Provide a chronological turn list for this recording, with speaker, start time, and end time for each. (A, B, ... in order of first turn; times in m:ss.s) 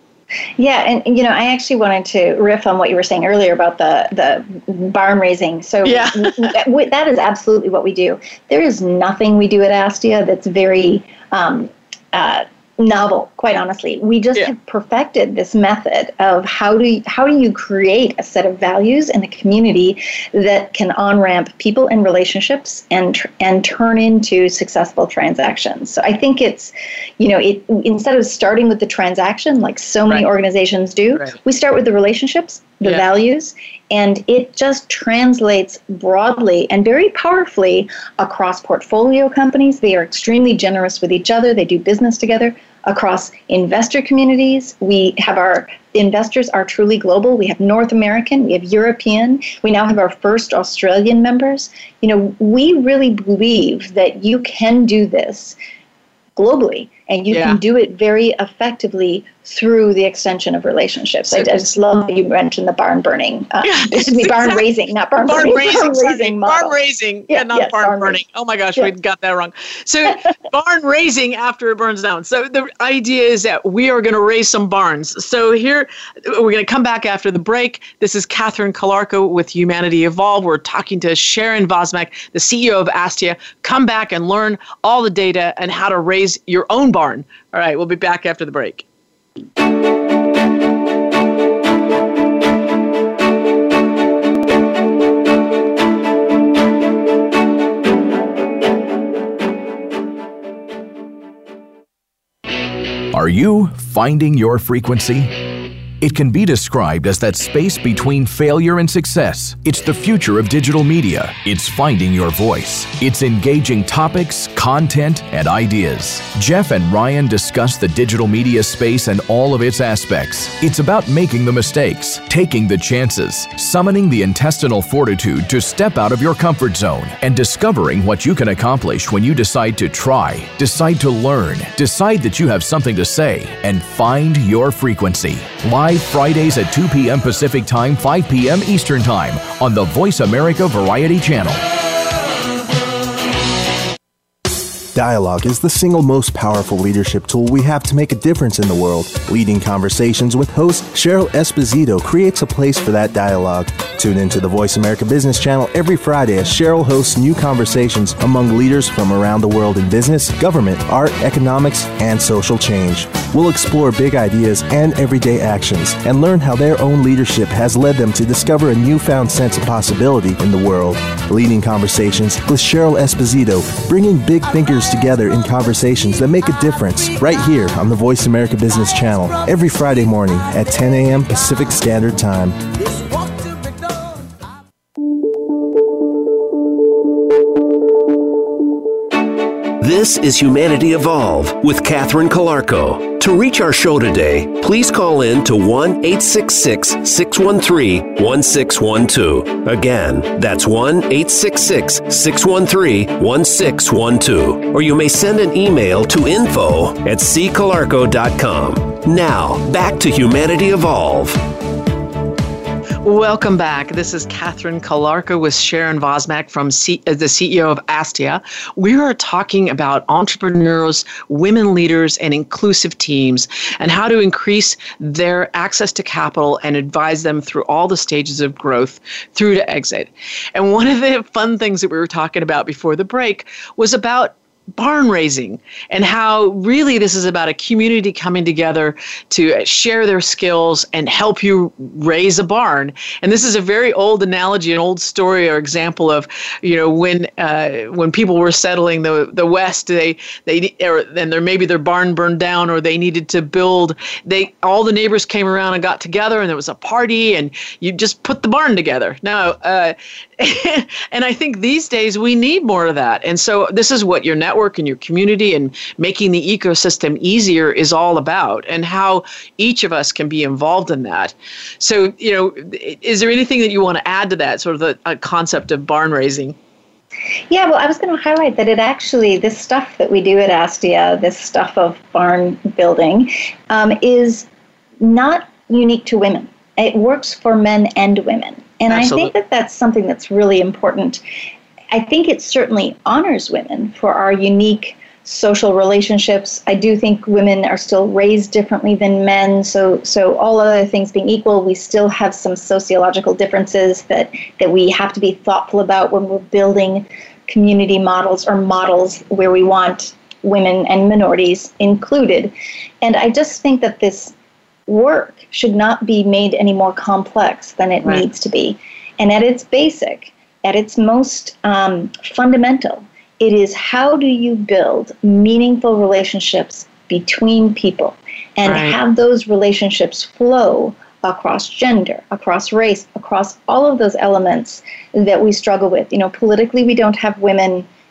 0:00.6-0:55.6 A
0:05.8-0:06.6 B
0:56.4-1:06.8 A
0:57.3-0:57.6 B
1:03.6-1:04.6 B
1:05.3-1:28.8 B
1:07.3-1:08.2 A
1:43.1-1:45.3 C
1:46.0-2:21.6 C
2:24.9-3:02.7 D
3:09.8-3:31.4 E
3:33.0-4:36.6 B
4:37.5-4:44.5 A
4:45.0-4:51.2 A
4:48.9-4:49.3 B
4:51.9-5:14.3 A
5:14.9-5:37.9 A
5:28.6-5:29.0 B